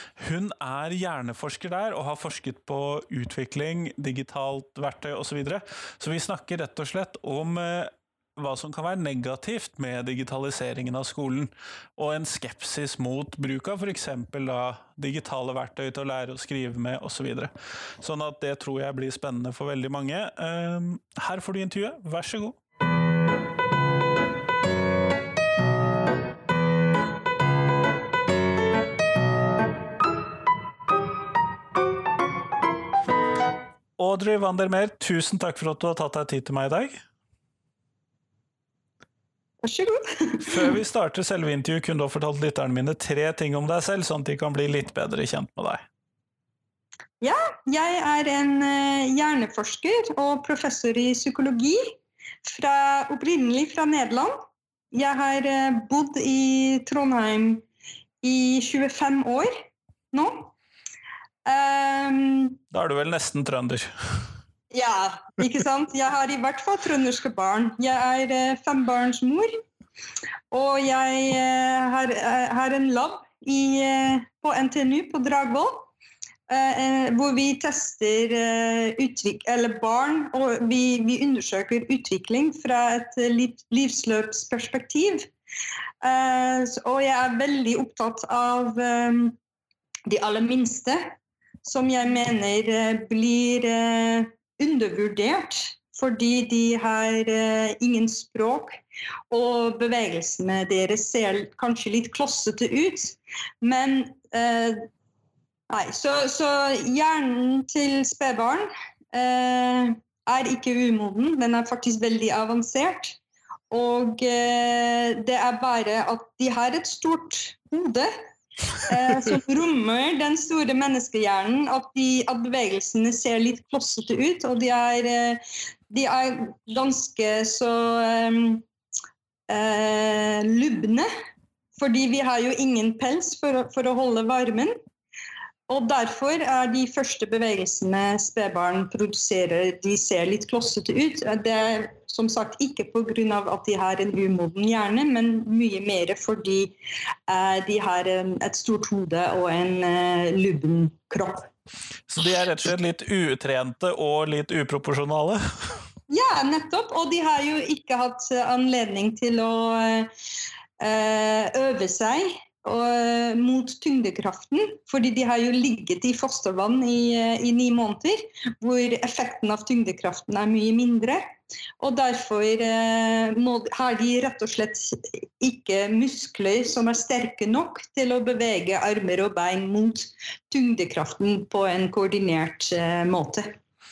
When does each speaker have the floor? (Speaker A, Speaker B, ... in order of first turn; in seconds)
Speaker A: 0.2-22.6, 34.0-37.0, 40.5-45.8, 62.7-64.2, 152.1-155.4
Speaker B: 39.6-40.8, 47.2-54.4, 54.9-57.6, 58.2-60.5, 61.5-62.6, 64.7-69.5, 70.5-75.9, 76.5-85.3, 86.0-89.3, 90.1-98.8, 99.3-104.9, 105.7-113.2, 113.7-118.1, 118.8-128.6, 129.5-131.1, 131.8-134.7, 135.7-146.7, 147.3-151.5, 156.1-160.1, 160.8-171.3, 171.8-183.5